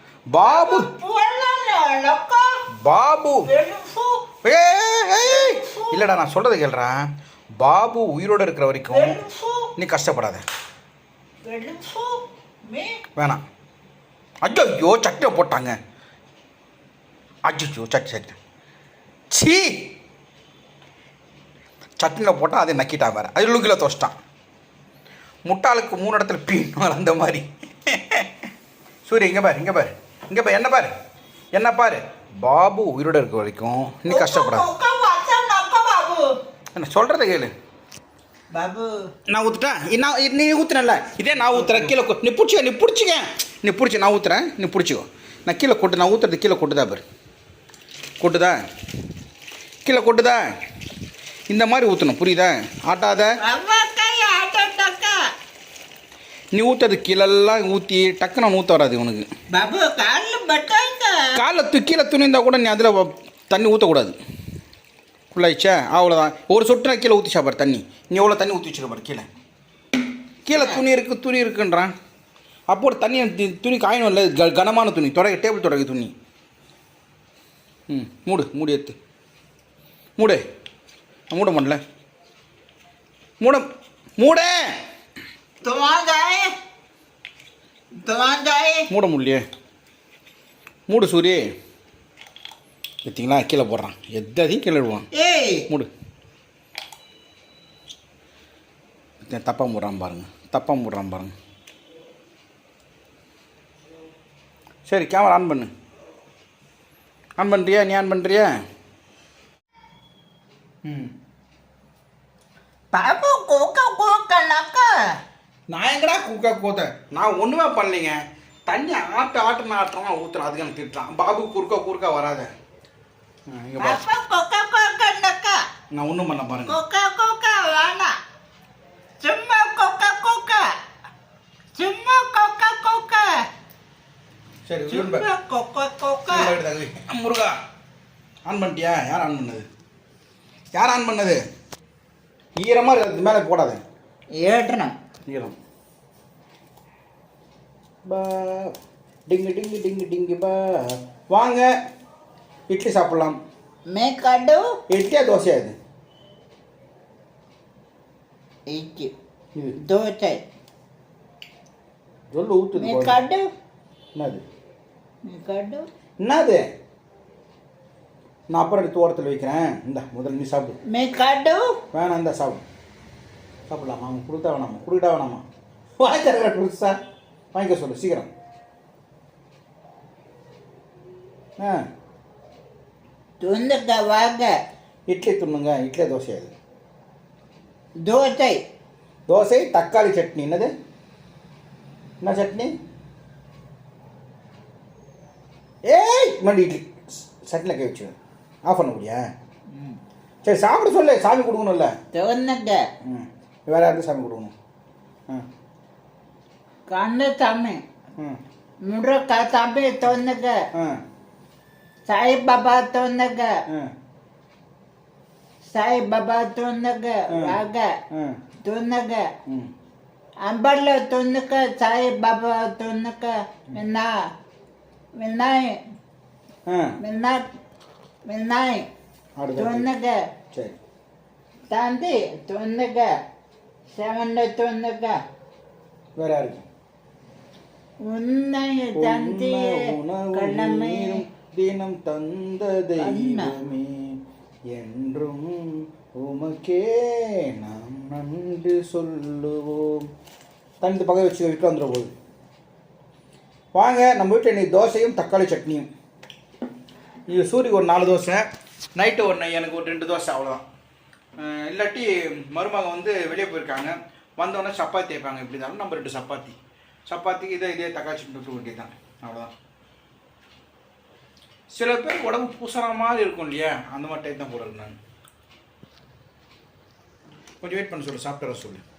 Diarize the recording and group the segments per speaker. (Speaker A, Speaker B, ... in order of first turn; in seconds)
Speaker A: 0.3-0.9, 2.8-3.4, 4.4-9.2, 9.8-10.4, 13.2-13.4, 14.4-15.7, 17.4-18.4, 19.3-19.9, 22.0-24.1, 25.4-28.3, 29.1-30.9, 31.5-34.7, 36.7-37.5, 39.3-47.0, 48.2-48.6, 49.8-50.4, 51.5-53.3, 56.5-59.3, 61.3-64.1, 65.3-69.3, 70.5-71.9, 72.7-76.1, 77.9-79.0, 81.3-81.8, 83.4-83.7, 84.2-84.6, 88.9-89.4, 90.9-91.4, 93.0-95.1, 99.2-101.3, 104.9-105.7, 107.4-108.6, 110.8-111.1, 115.7-122.5, 123.5-124.0, 125.9-126.8, 134.7-135.2, 136.3-137.6, 138.4-139.7, 140.7-141.4, 142.6-143.8, 145.2-145.6, 148.1-148.7, 149.3-151.7, 152.7-153.4, 154.9-155.7, 162.3-163.2, 164.2-164.4, 166.2-166.6, 168.5-170.8, 171.9-172.6, 173.7-175.4, 176.0-177.0, 177.5-178.3, 185.1-186.5, 189.3-190.7, 192.2-192.7, 195.8-199.2, 200.4-201.9, 203.0-204.5, 217.3-217.6, 218.1-218.4, 226.7-227.0, 229.4-229.9, 230.5-230.8, 236.2-236.7, 238.9-244.1, 244.7-250.1, 250.8-252.1, 253.7-255.9, 257.3-258.4, 258.9-260.6, 261.4-266.6, 267.1-269.5, 271.7-274.9, 277.6-278.8
Speaker B: 0.4-2.5, 3.4-4.2, 5.2-6.0, 8.9-9.7, 11.4-13.0, 34.1-36.3, 38.5-39.1, 41.5-41.9, 53.4-55.2, 59.5-61.4, 70.5-70.8, 85.6-86.5, 88.0-88.9, 95.1-95.7, 112.9-114.9, 123.8-125.6, 126.7-128.1, 129.2-130.6, 131.7-133.3, 134.9-136.5, 144.4-144.9, 153.9-154.6, 158.7-159.1, 159.8-160.4, 162.8-163.5, 165.2-165.9, 170.9-171.7, 183.4-184.5, 188.0-188.6, 202.1-202.8, 206.9-207.8, 208.8-210.6, 212.1-213.5, 215.7-217.9, 218.6-219.3, 220.4-224.1, 225.2-225.8, 227.0-227.4, 228.2-228.9, 229.6-230.2, 231.7-233.1, 233.9-235.2, 238.1-239.8, 240.3-241.2, 243.0-243.5